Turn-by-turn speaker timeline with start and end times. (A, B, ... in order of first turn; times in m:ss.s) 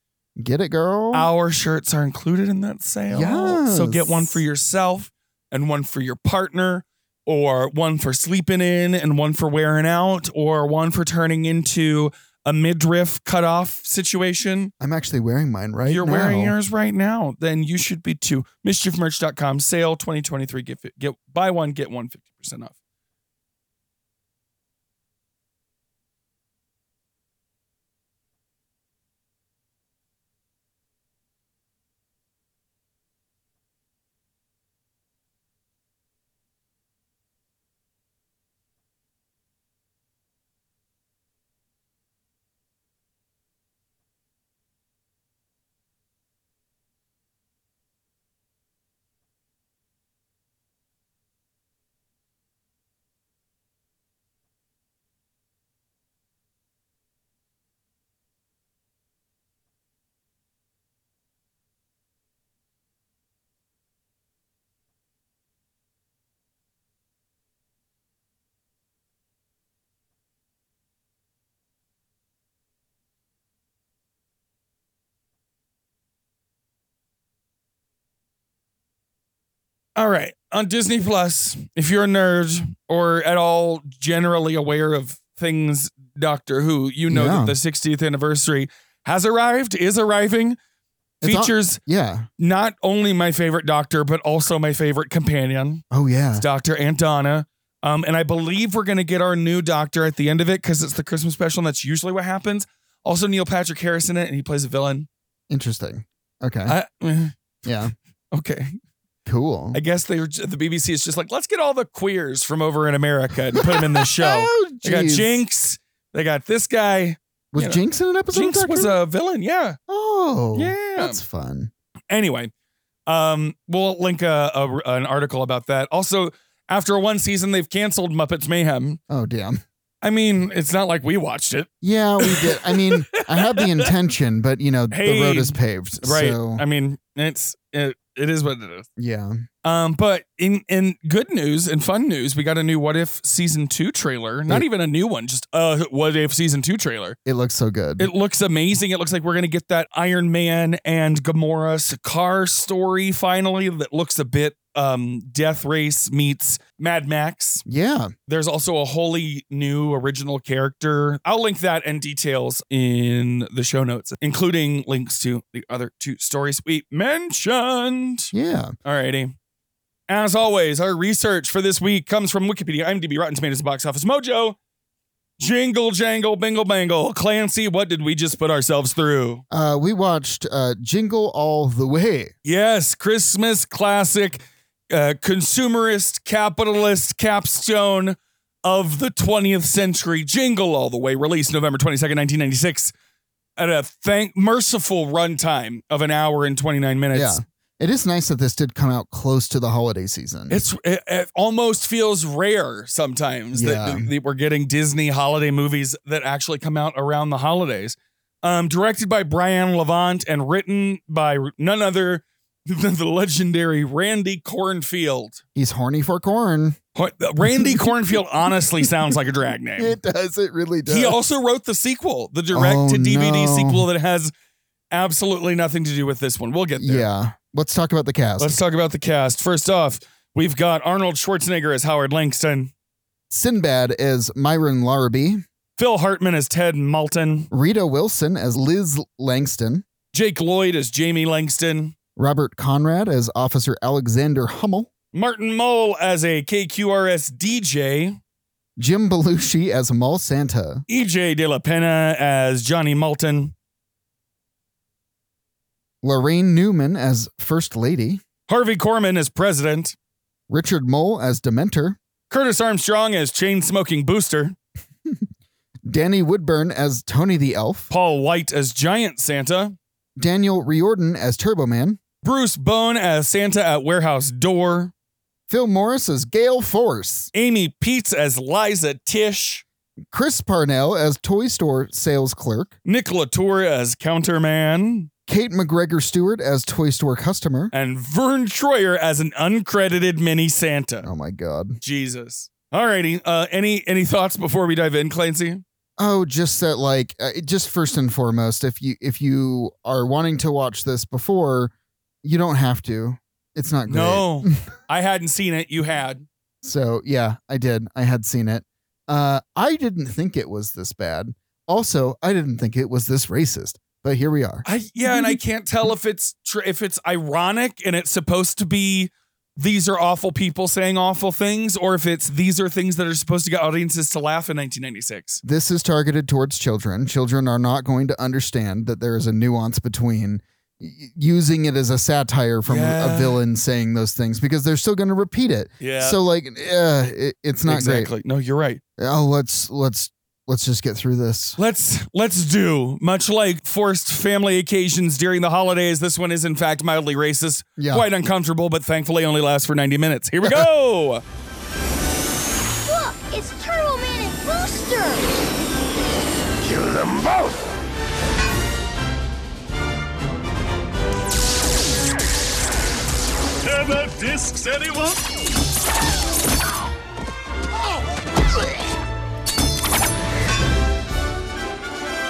0:00.4-0:01.3 A
0:01.1-0:14.7 B
0:03.1-0:04.4 A
0:14.8-0:16.5 A
0:15.9-0:22.8 B
1:20.0-1:30.6 B
1:27.1-1:27.5 A
1:31.2-1:32.3 A
1:31.2-1:31.8 B
1:32.4-1:35.8 B
1:35.9-1:36.4 A
1:36.4-1:45.1 B
1:45.5-1:46.8 A
1:46.7-1:47.4 B
1:47.6-1:47.9 A
1:48.3-1:48.8 B
1:49.2-1:49.8 A
1:49.7-1:57.8 B
1:53.6-1:55.4 A
1:57.5-1:59.0 A
1:58.3-1:59.8 B
1:59.9-2:01.7 A
2:00.6-2:01.2 B
2:02.1-2:02.5 B
2:03.1-2:09.0 B
2:09.1-2:09.6 A
2:10.0-2:13.9 B
2:11.8-2:16.6 A
2:14.9-2:18.9 B
2:19.0-2:19.4 A
2:19.6-2:27.2 B
2:27.2-2:28.1 A
2:28.0-2:37.6 B
2:37.6-2:38.1 A
2:38.3-2:48.3 B
2:48.3-2:48.8 A
2:48.8-2:49.3 B
2:50.1-2:54.6 B
2:55.4-2:59.4 B
2:59.5-3:02.3 A
3:02.4-3:12.9 B
3:13.6-3:17.4 B
3:17.1-3:20.6 A
3:20.5-3:35.4 B
3:23.5-3:24.1 A
3:35.6-3:36.8 A
3:36.9-3:40.0 B
3:37.4-3:39.1 A
3:39.8-3:41.2 A
3:40.9-3:44.3 B
3:42.5-3:43.8 A
3:44.9-3:47.1 B
3:46.8-3:48.6 A
3:48.4-3:52.7 B
3:53.3-3:55.4 A
3:55.8-3:57.5 B
3:57.5-3:59.8 A
4:00.1-4:01.9 B
4:02.2-4:04.9 A
4:05.1-4:08.2 B
4:08.8-4:10.8 A
4:10.9-4:13.5 B
4:16.0-4:18.2 A
4:18.5-4:19.9 B
4:20.5-4:22.0 A
4:22.3-4:24.6 B
4:25.9-4:27.9 A
4:27.9-4:29.8 B
4:30.2-4:32.0 A
4:32.2-4:34.9 B
4:35.5-4:37.3 A
4:37.3-4:39.6 B
4:40.1-4:42.8 A
4:42.9-4:45.1 B
4:45.3-4:47.7 A
4:47.7-4:51.1 B
4:51.0-4:51.8 A
4:51.8-4:55.6 B
4:56.0-5:04.6 A
5:03.9-5:06.2 B
5:06.6-5:15.4 A
5:14.6-5:25.4 B
5:25.4-5:38.1 A
5:32.7-5:33.4 B
5:35.8-5:36.2 B
5:37.6-5:38.8 B
5:39.0-5:41.6 A
5:41.6-5:51.2 B
5:47.8-5:48.1 A
5:52.8-5:55.4 C
6:03.8-6:05.1 B